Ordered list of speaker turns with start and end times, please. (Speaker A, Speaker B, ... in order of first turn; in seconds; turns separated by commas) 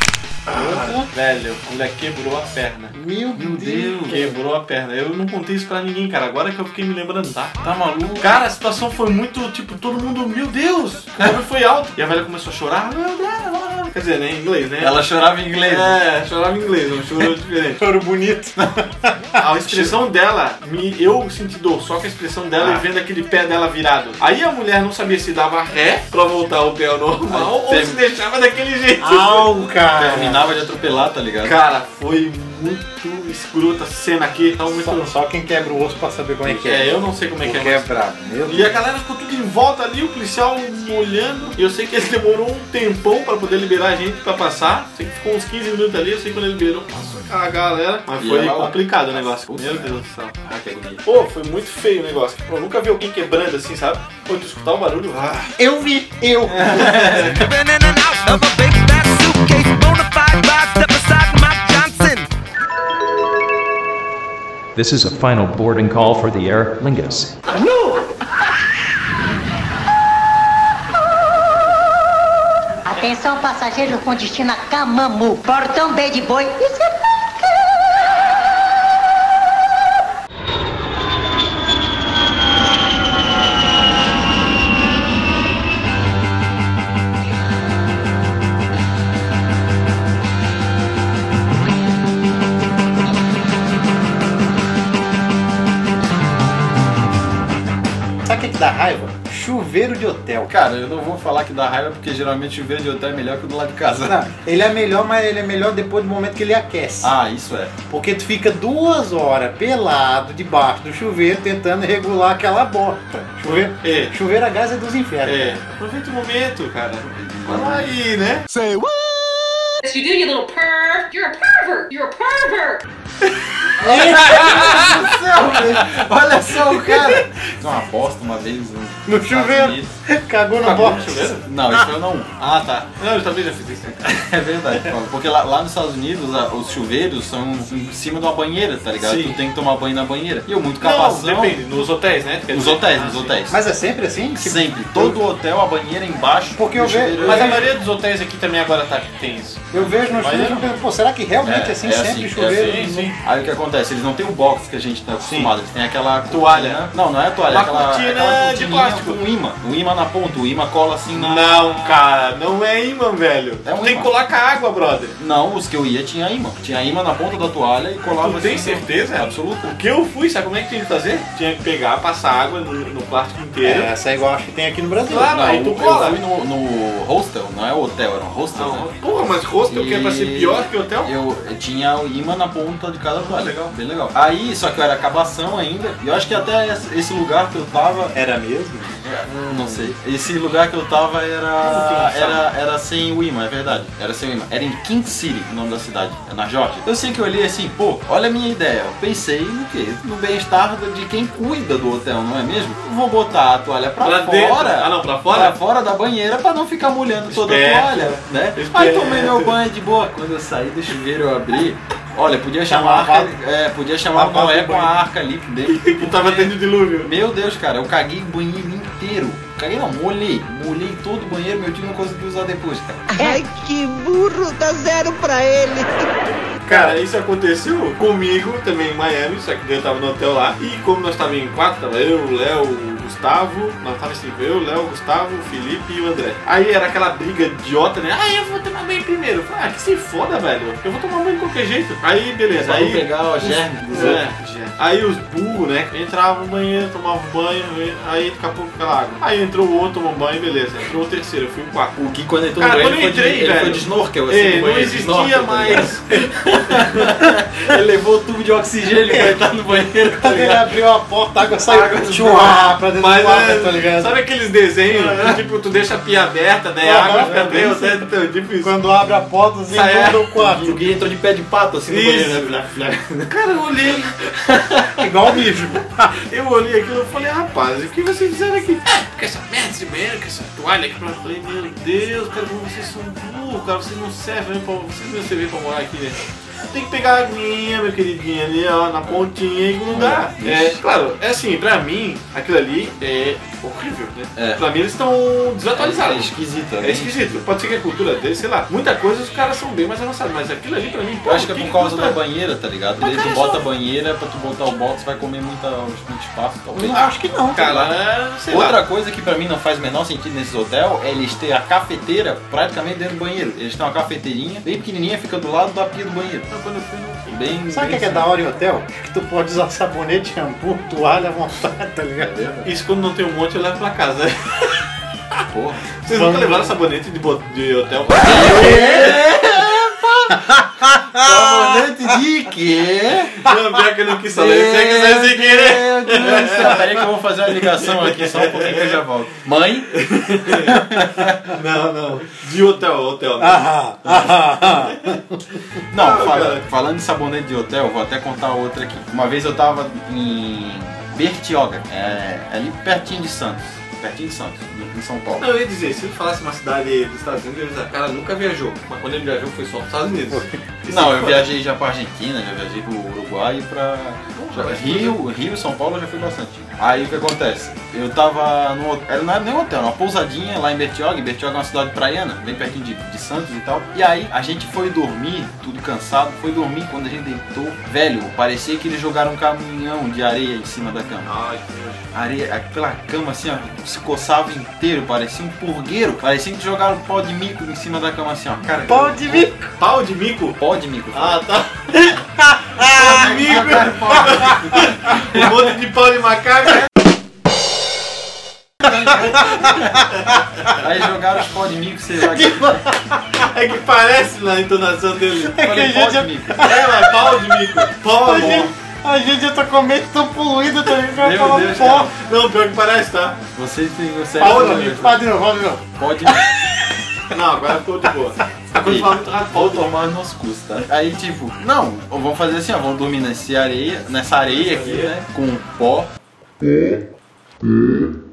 Speaker A: 0.5-2.9, Speaker B: 0.5-1.1, Speaker B: 2.9-4.4, Speaker C: 3.4-4.2, Speaker A: 4.0-7.6, Speaker C: 7.6-8.4, Speaker A: 8.2-15.1, Speaker C: 14.8-16.0, Speaker A: 15.6-17.8, Speaker B: 17.8-19.4, Speaker A: 19.4-29.5, Speaker C: 27.3-28.0, Speaker B: 29.0-30.5, Speaker C: 30.0-31.6, Speaker A: 31.4-35.1, Speaker B: 34.7-38.8, Speaker A: 36.5-37.9, Speaker A: 38.5-50.4, Speaker C: 48.2-51.0, Speaker A: 51.0-55.6, Speaker B: 55.6-56.8, Speaker A: 56.5-57.5, Speaker C: 56.6-57.5, Speaker D: 57.4-62.3, Speaker E: 64.8-67.3, Speaker F: 72.9-76.9, Speaker B: 98.2-100.5, Speaker C: 100.5-104.2, Speaker B: 104.0-107.1, Speaker C: 107.0-107.8, Speaker B: 107.9-115.6, Speaker A: 113.5-114.1, Speaker A: 115.2-118.5, Speaker C: 117.0-117.9, Speaker G: 119.8-122.8, Speaker C: 123.8-129.9, Speaker A: 123.8-125.0, Speaker B: 123.9-124.7, Speaker B: 129.1-131.9, Speaker A: 130.6-131.4, Speaker C: 131.4-132.3, Speaker A: 132.4-134.1, Speaker C: 134.0-141.6, Speaker A: 139.0-139.4, Speaker A: 140.8-143.4, Speaker C: 142.5-143.6, Speaker B: 143.5-145.2, Speaker C: 144.4-147.7, Speaker B: 146.6-147.7, Speaker A: 147.2-150.7, Speaker B: 149.7-153.1, Speaker C: 151.4-162.0, Speaker A: 152.4-153.1, Speaker A: 155.2-155.5, Speaker A: 156.3-156.9, Speaker A: 157.5-159.2, Speaker A: 161.1-165.2, Speaker C: 163.7-164.1, Speaker C: 165.2-169.8, Speaker A: 168.1-173.9, Speaker B: 173.6-175.4, Speaker A: 175.1-176.2, Speaker C: 175.3-178.9, Speaker A: 178.6-181.1, Speaker C: 179.7-188.2, Speaker A: 183.2-183.7, Speaker B: 188.1-189.0, Speaker C: 189.0-223.1, Speaker A: 189.3-189.9, Speaker A: 191.6-192.5, Speaker A: 204.0-205.6, Speaker A: 207.3-209.6, Speaker B: 212.6-213.3, Speaker B: 214.1-215.0, Speaker A: 215.7-217.1, Speaker H: 223.1-226.1, Speaker A: 226.7-252.0, Speaker B: 226.7-227.0, Speaker C: 242.6-244.2, Speaker C: 252.0-260.7, Speaker A: 252.6-257.1, Speaker B: 259.0-259.5, Speaker B: 260.1-264.2, Speaker C: 261.6-262.6, Speaker A: 263.0-268.8, Speaker C: 264.9-265.4, Speaker B: 266.8-267.8, Speaker C: 267.0-267.9, Speaker B: 268.6-270.8, Speaker A: 269.7-270.2, Speaker C: 270.4-273.1, Speaker A: 271.9-274.1, Speaker C: 274.5-274.9, Speaker B: 275.0-276.2, Speaker A: 276.3-286.2, Speaker A: 286.7-302.2, Speaker C: 289.9-290.8, Speaker C: 294.4-294.6, Speaker C: 295.8-297.4, Speaker C: 301.3-307.1, Speaker A: 303.0-303.6, Speaker B: 306.7-307.8, Speaker A: 307.5-308.8, Speaker C: 307.6-307.9, Speaker C: 308.5-316.5, Speaker A: 316.5-317.4, Speaker C: 317.3-318.3, Speaker B: 317.7-322.3, Speaker C: 322.2-322.7, Speaker A: 322.6-324.8, Speaker C: 325.5-325.9, Speaker A: 326.0-329.2, Speaker B: 326.1-326.7, Speaker C: 328.2-333.5, Speaker B: 328.5-329.0, Speaker B: 331.0-331.8, Speaker A: 333.4-336.9, Speaker C: 334.4-340.0, Speaker A: 337.5-339.0, Speaker A: 339.9-340.9, Speaker C: 340.7-341.5, Speaker A: 341.5-345.2, Speaker B: 343.4-345.4, Speaker C: 345.9-355.5, Speaker A: 345.9-346.6, Speaker A: 355.4-361.5, Speaker B: 360.3-360.6, Speaker C: 360.9-381.3, Speaker A: 364.3-365.2, Speaker A: 381.2-382.0, Speaker C: 382.1-389.5, Speaker B: 388.9-389.7, Speaker A: 389.8-390.6, Speaker C: 390.6-391.4, Speaker A: 391.1-392.1, Speaker B: 392.4-393.2, Speaker A: 392.8-396.9, Speaker C: 392.8-395.5, Speaker C: 398.8-402.9, Speaker B: 402.2-403.2, Speaker A: 403.4-405.6, Speaker B: 405.4-412.1, Speaker C: 405.6-406.7, Speaker A: 406.6-408.7, Speaker C: 411.2-412.1, Speaker A: 411.9-413.4, Speaker C: 413.5-415.2, Speaker B: 414.4-416.6, Speaker A: 414.4-415.1, Speaker C: 416.0-416.5, Speaker A: 417.3-420.0, Speaker C: 418.8-426.1, Speaker A: 424.5-425.1